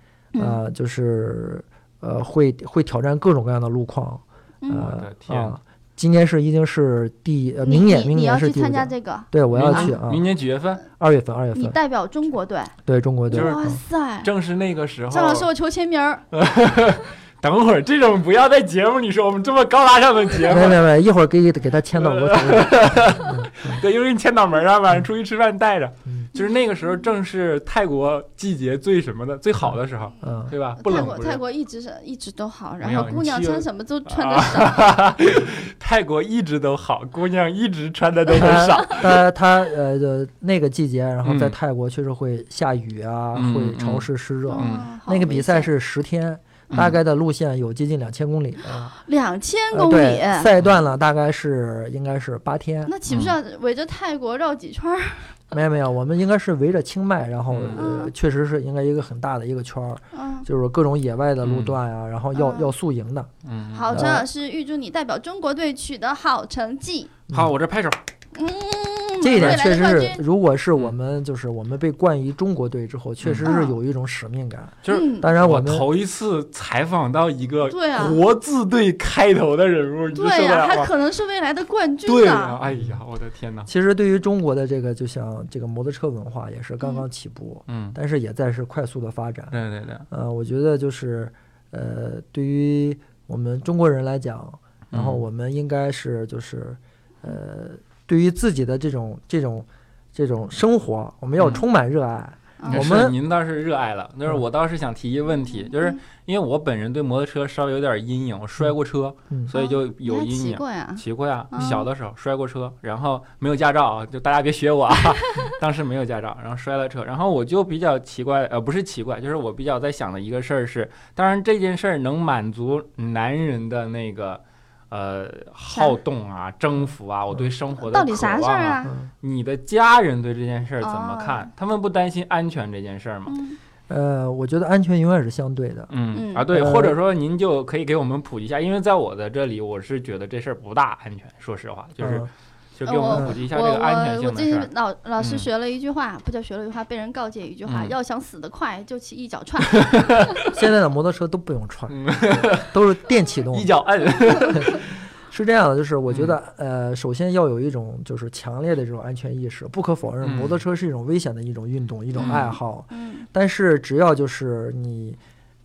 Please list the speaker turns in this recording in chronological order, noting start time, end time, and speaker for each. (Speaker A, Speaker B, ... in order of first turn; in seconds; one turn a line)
Speaker A: 0.3-0.6
Speaker B: 0.4-10.3
Speaker A: 4.6-4.9
Speaker C: 4.7-5.6
Speaker A: 7.6-9.9
Speaker C: 9.5-10.8
Speaker B: 11.0-11.8
Speaker A: 11.5-12.8
Speaker B: 12.8-13.8
Speaker A: 13.3-14.3
Speaker C: 13.3-13.7
Speaker C: 14.2-15.5
Speaker A: 15.1-16.2
Speaker C: 16.3-20.8
Speaker B: 20.5-23.8
Speaker C: 21.9-31.4
Speaker B: 30.2-31.0
Speaker A: 30.8-35.0
Speaker C: 32.8-39.1
Speaker B: 38.3-48.9
Speaker C: 41.2-41.5
Speaker C: 43.3-44.9
Speaker A: 44.5-45.7
Speaker C: 46.7-47.0
Speaker A: 49.0-50.5
Speaker B: 49.7-52.9
Speaker A: 52.9-55.6
Speaker C: 53.1-53.4
Speaker B: 55.5-63.3
Speaker C: 57.5-57.9
Speaker A: 57.7-58.1
Speaker A: 60.1-60.5
Speaker C: 61.4-61.8
Speaker A: 62.3-62.7
Speaker C: 63.4-64.1
Speaker A: 63.7-67.1
Speaker B: 63.9-64.3
Speaker C: 67.3-68.0
Speaker A: 68.3-70.2
Speaker B: 69.2-75.9
Speaker C: 69.3-69.6
Speaker C: 73.2-73.5
Speaker A: 73.4-73.8
Speaker C: 74.8-80.9
Speaker A: 74.9-75.3
Speaker A: 77.7-78.2
Speaker A: 80.1-82.6
Speaker C: 82.0-83.7
Speaker B: 82.7-83.0
Speaker B: 83.7-89.5
Speaker C: 87.7-88.0
Speaker C: 89.5-90.0
Speaker B: 90.1-103.2
Speaker C: 94.9-95.2
Speaker C: 101.4-101.6
Speaker A: 102.6-103.0
Speaker C: 102.7-133.3
Speaker A: 105.5-106.0
Speaker A: 109.5-111.8
Speaker A: 125.7-126.0
Speaker A: 127.8-128.9
Speaker B: 128.8-129.1
Speaker A: 130.8-131.5
Speaker A: 133.3-133.6
Speaker B: 133.9-135.9
Speaker C: 135.9-145.5
Speaker A: 136.1-136.4
Speaker B: 136.5-137.0
Speaker B: 142.0-142.3
Speaker A: 142.8-150.2
Speaker C: 147.6-147.9
Speaker C: 149.7-150.5
Speaker B: 150.5-153.8
Speaker C: 151.9-152.8
Speaker C: 153.5-154.8
Speaker B: 154.5-165.2
Speaker C: 156.1-156.3
Speaker C: 160.2-160.6
Speaker C: 162.1-162.5
Speaker A: 162.2-163.2